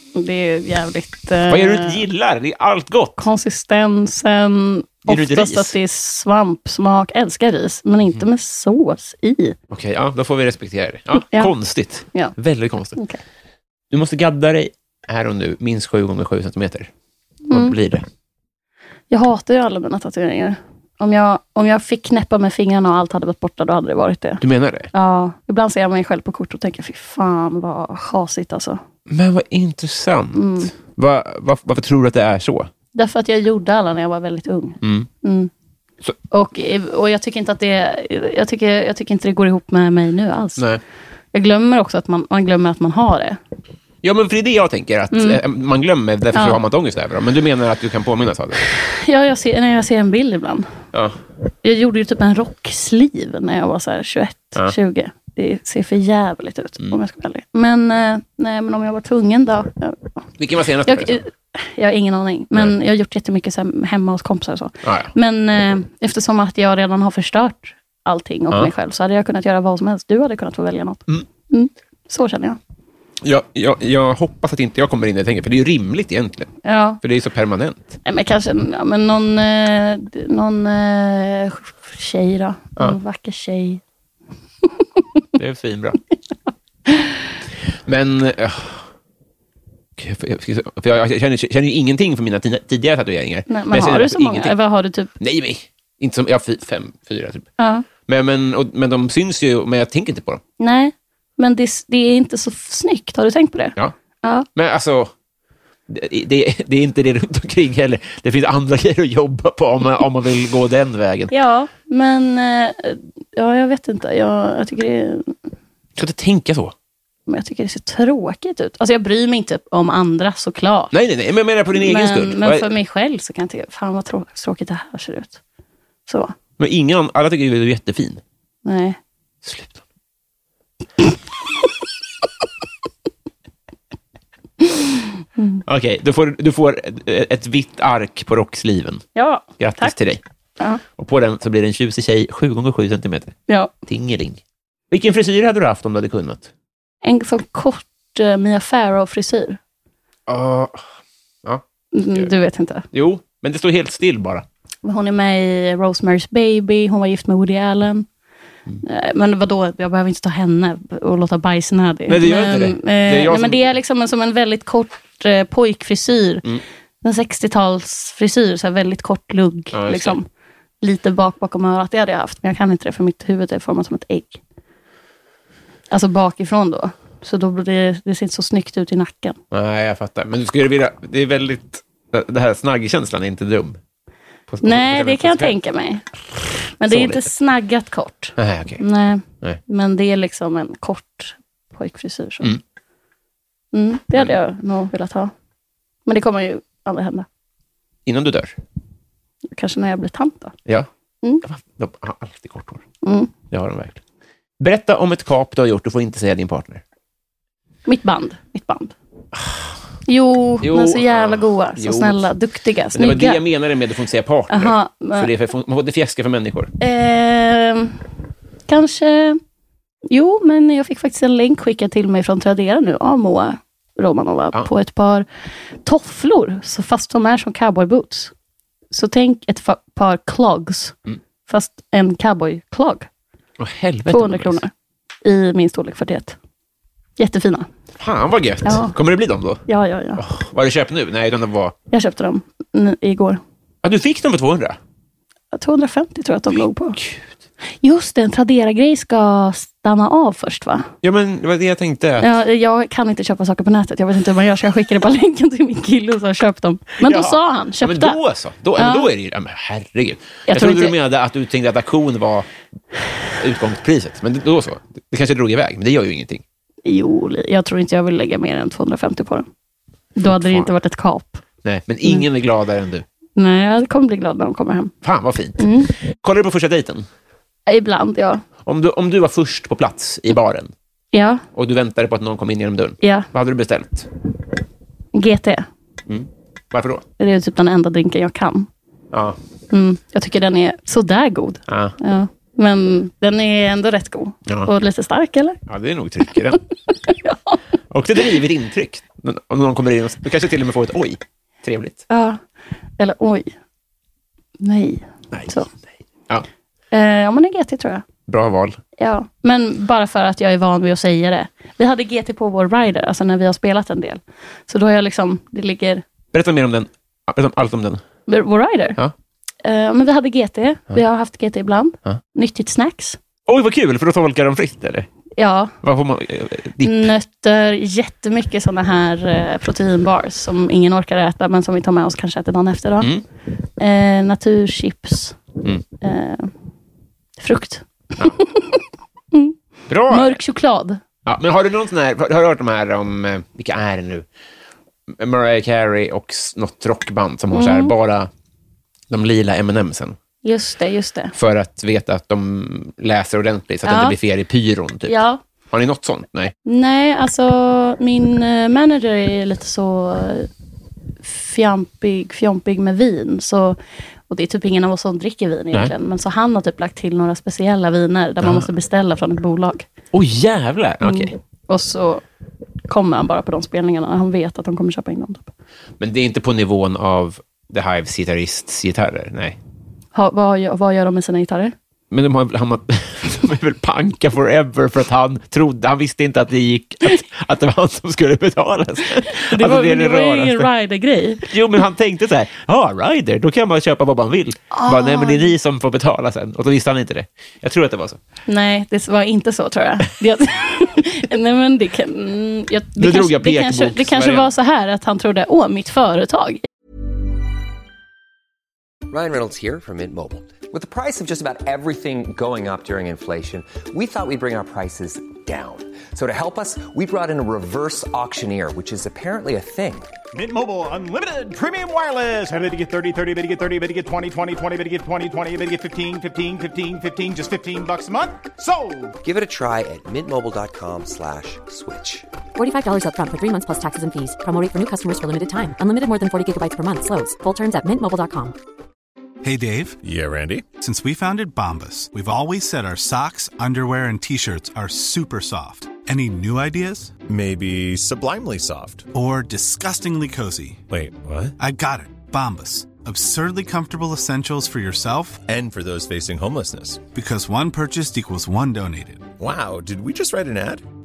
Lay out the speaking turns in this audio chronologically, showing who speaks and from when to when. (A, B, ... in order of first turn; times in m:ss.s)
0:00.2-0:02.0 A
0:01.5-0:03.3 B
0:03.2-0:09.6 A
0:05.1-0:05.8 B
0:09.7-0:13.0 B
0:11.2-0:11.5 A
0:13.0-0:13.2 A
0:13.9-0:16.9 B
0:17.5-0:17.8 A
0:17.5-0:18.0 B
0:19.1-0:24.4 A
0:24.4-0:24.9 B
0:24.9-0:28.8 A
0:29.1-0:32.7 B
0:30.4-0:30.7 A
0:33.0-0:35.5 A
0:34.8-0:35.1 B
0:36.3-0:40.6 A
0:41.3-0:43.4 A
0:44.0-0:48.7 B
0:45.1-0:45.4 A
0:46.3-0:46.6 A
0:48.7-0:50.7 A
0:50.9-0:51.2 B
0:51.6-1:00.2 A
1:00.4-1:01.2 B
1:00.9-1:12.6 A
1:04.8-1:05.1 B
1:13.2-1:18.0 B
1:16.6-1:17.0 A
1:18.0-1:23.8 A
1:25.4-1:26.0 B
1:26.9-1:27.2 A
1:27.7-1:28.9 B
1:30.0-1:34.6 B
1:33.5-1:35.1 A
1:35.2-1:37.5 B
1:37.6-1:37.9 A
1:38.0-1:40.4 B
1:40.6-1:44.5 A
1:44.6-1:45.1 B
1:45.9-1:51.3 B
1:51.3-1:55.4 A
1:56.0-1:56.7 B
1:57.3-2:00.9 A
2:00.9-2:02.7 B
2:01.7-2:05.4 A
2:06.1-2:06.3 A
2:06.6-2:08.2 B
2:08.6-2:09.0 A
2:09.4-2:09.8 B
2:15.4-2:15.6 A
2:15.6-2:19.0 B
2:19.2-2:20.0 A
2:19.6-2:20.2 B
2:21.0-2:24.4 B
2:24.9-2:26.5 B
2:27.0-2:29.6 A
2:30.3-2:30.8 B
2:31.4-2:32.3 B
2:31.9-2:32.9 A
2:32.9-2:34.4 B
2:34.8-2:38.1 A
2:38.8-2:46.4 A
2:42.1-2:43.7 B
2:47.0-2:50.3 A
2:49.7-2:50.2 B
2:50.8-2:54.4 A
2:55.9-2:59.4 A
2:59.5-3:03.8 B
3:04.5-3:05.6 B
3:04.6-3:12.6 A
3:06.9-3:07.3 B
3:08.4-3:08.8 B
3:13.7-3:15.3 A
3:16.1-3:17.3 A
3:18.1-3:18.6 B
3:19.5-3:20.6 A
3:21.4-3:22.8 B
3:23.0-3:23.3 A
3:23.5-3:24.0 B
3:24.6-3:26.8 B
3:27.9-3:29.0 A
3:29.3-3:29.8 B
3:30.1-3:33.4 A
3:30.6-3:32.3 B
3:32.9-3:36.7 B
3:34.5-3:35.3 A
3:36.8-3:38.0 A
3:38.7-3:39.4 A
3:40.1-3:45.3 A
3:45.8-3:48.3 A
3:48.9-3:51.0 A
3:51.5-3:53.1 A
3:53.6-3:54.6 B
3:54.1-3:54.7 A
3:55.2-3:56.4 A
3:57.2-3:57.7 A
3:58.0-3:59.6 B
3:58.6-3:59.0 A
3:59.7-4:00.2 A
4:00.2-4:01.8 B
4:01.9-4:03.4 A
4:03.8-4:04.8 B
4:05.5-4:07.0 A
4:07.0-4:07.2 B
4:07.8-4:10.9 A
4:11.0-4:12.3 B
4:12.2-4:18.2 A
4:17.0-4:22.5 B
4:18.8-4:19.1 A
4:20.5-4:21.0 A
4:23.4-4:26.4 B
4:26.8-4:29.5 A
4:30.2-4:31.4 A
4:30.2-4:30.7 B
4:31.6-4:33.0 B
4:33.4-4:35.0 A
4:35.0-4:37.1 B
4:35.6-4:35.9 A
4:37.7-4:38.4 A
4:38.6-4:40.7 B
4:41.1-4:41.4 A
4:41.5-4:44.1 B
4:43.0-4:43.3 A
4:45.1-4:45.7 A
4:46.1-4:47.0 B
4:47.2-4:48.7 A
4:49.1-4:49.4 B
4:49.7-4:55.6 A
4:51.7-4:52.0 B
4:54.5-4:54.7 B
4:55.7-4:56.6 B
4:57.0-4:57.6 A
4:57.9-5:02.0 B
5:02.1-5:02.4 A
5:03.0-5:03.5 A
5:04.6-5:05.7 A
5:06.9-5:08.0 A
5:08.3-5:08.8 B
5:09.0-5:16.0 A
5:16.3-5:18.0 B
5:18.3-5:19.0 A
5:19.6-5:23.2 A
5:23.5-5:25.1 B
5:25.4-5:25.8 A
5:25.8-5:27.1 B
5:26.8-5:33.1 A
5:33.8-5:35.4 A
5:36.0-5:36.5 A
5:37.4-5:39.6 A
5:39.9-5:40.4 B
5:40.1-5:41.0 A
5:41.2-5:44.3 B
5:45.1-5:48.3 B
5:47.5-5:47.9 A
5:49.1-5:50.2 B
5:50.4-5:51.3 A
5:51.3-5:55.2 B
5:53.8-5:54.2 A
5:55.1-5:55.4 A
5:55.7-5:56.6 B
5:56.6-6:00.5 A
6:01.2-6:03.8 A
6:04.3-6:09.9 A
6:08.4-6:08.7 B
6:10.1-6:11.3 B
6:11.0-6:12.2 A
6:12.9-6:15.5 A
6:16.0-6:19.6 B
6:20.2-6:21.7 A
6:22.1-6:30.7 B
6:29.2-6:31.5 A
6:31.4-6:38.2 B
6:34.7-6:35.5 A
6:38.5-6:46.6 A
6:43.0-6:44.5 B
6:49.1-7:00.1 C
7:00.3-7:09.2 D
7:09.2-7:12.2 C
7:12.6-7:18.6 E
7:19.4-7:20.0 F
7:20.0-7:20.7 G
7:20.7-7:27.2 F
7:27.3-7:29.1 G
7:29.1-7:30.8 F
7:30.9-7:31.5 G
7:31.6-7:35.4 F
7:35.5-7:37.1 G
7:37.1-7:39.3 F
7:39.4-7:40.8 G